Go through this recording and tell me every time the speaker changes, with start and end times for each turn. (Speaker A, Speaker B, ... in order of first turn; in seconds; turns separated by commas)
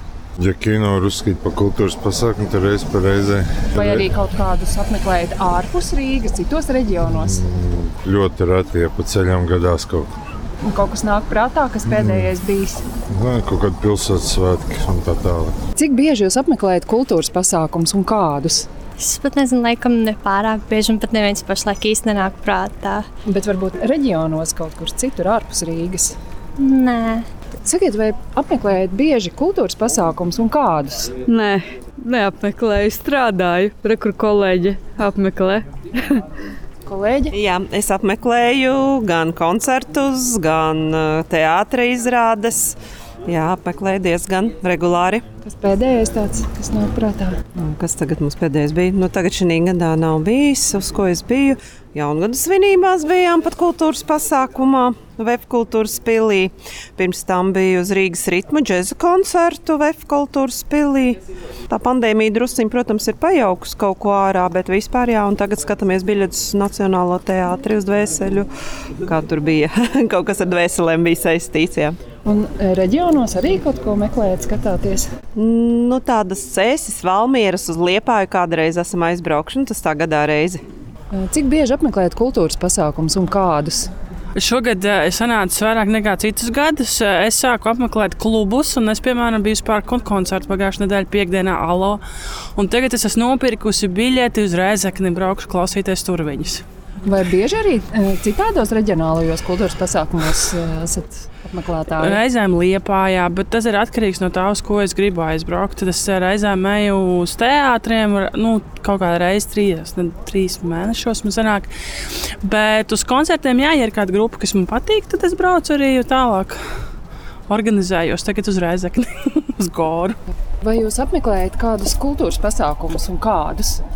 Speaker A: 0.4-4.1, Speaker B: 3.7-7.4, Speaker A: 7.2-10.1, Speaker B: 10.6-12.8, Speaker A: 11.9-12.3, Speaker A: 13.1-15.5, Speaker B: 15.8-18.7, Speaker C: 19.0-23.1, Speaker B: 23.2-26.1, Speaker C: 26.6-27.2, Speaker B: 27.6-31.1, Speaker D: 31.3-36.2, Speaker B: 36.9-37.3, Speaker E: 37.3-45.2, Speaker B: 45.4-47.4, Speaker E: 47.6-68.5, Speaker E: 69.0-72.0, Speaker B: 72.2-75.1, Speaker E: 75.3-80.6, Speaker B: 81.1-83.9, Speaker F: 84.3-92.0, Speaker F: 92.5-96.6, Speaker B: 97.0-102.2, Speaker F: 102.0-111.7, Speaker F: 112.4-116.6, Speaker F: 117.5-120.2, Speaker B: 120.6-123.8